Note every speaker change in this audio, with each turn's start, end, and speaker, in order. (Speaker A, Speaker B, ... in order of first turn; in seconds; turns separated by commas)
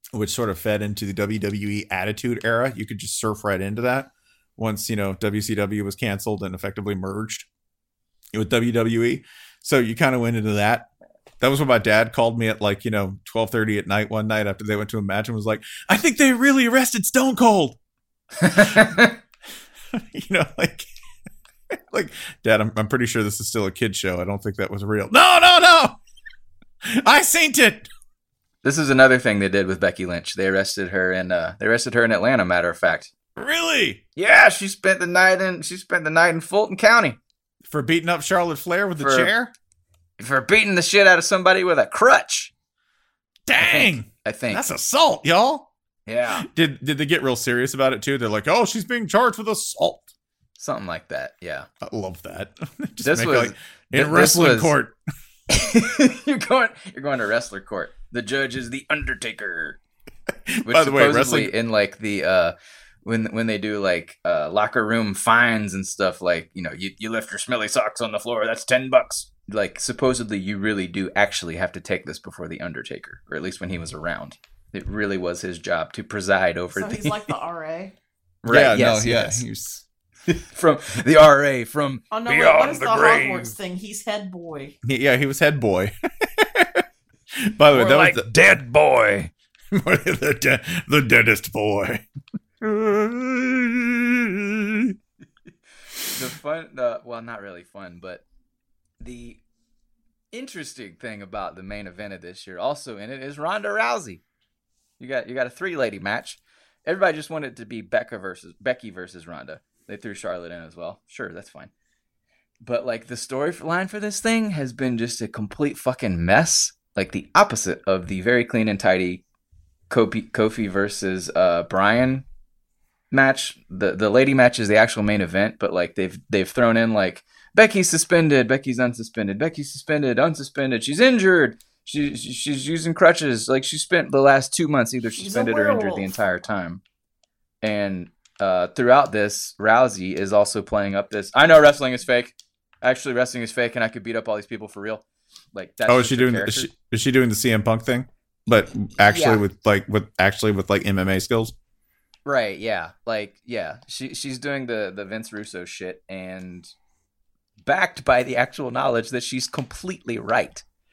Speaker A: 0.1-7.5, Speaker A: 8.3-10.9, Speaker A: 11.4-17.8, Speaker A: 18.5-19.1, Speaker A: 19.9-20.9, Speaker A: 21.9-26.0, Speaker A: 26.9-27.9, Speaker B: 28.6-33.1, Speaker A: 33.4-34.0, Speaker B: 34.2-37.2, Speaker A: 37.7-39.5, Speaker B: 39.0-39.3, Speaker B: 40.2-42.5, Speaker A: 43.5-45.7, Speaker B: 43.6-44.7, Speaker B: 46.1-46.5, Speaker A: 46.4-50.1, Speaker B: 50.6-51.7, Speaker A: 51.8-55.0, Speaker B: 53.0-54.7, Speaker B: 55.5-59.8, Speaker A: 60.6-61.5, Speaker B: 60.7-62.5, Speaker B: 63.0-77.2, Speaker C: 76.8-78.0, Speaker A: 78.4-79.8, Speaker B: 78.5-79.4, Speaker B: 80.3-83.5, Speaker C: 82.1-84.8, Speaker A: 84.8-86.8, Speaker A: 87.5-88.3, Speaker B: 87.7-89.3, Speaker A: 89.7-92.0, Speaker A: 92.6-95.0, Speaker B: 96.1-98.2, Speaker B: 99.0-99.4, Speaker B: 100.3-104.2, Speaker B: 105.0-111.7, Speaker B: 112.6-119.2, Speaker B: 119.9-122.2, Speaker B: 123.1-136.8, Speaker C: 135.2-136.1, Speaker B: 137.6-146.7, Speaker A: 145.9-151.5, Speaker B: 149.1-149.4, Speaker B: 152.3-156.7, Speaker B: 157.7-160.6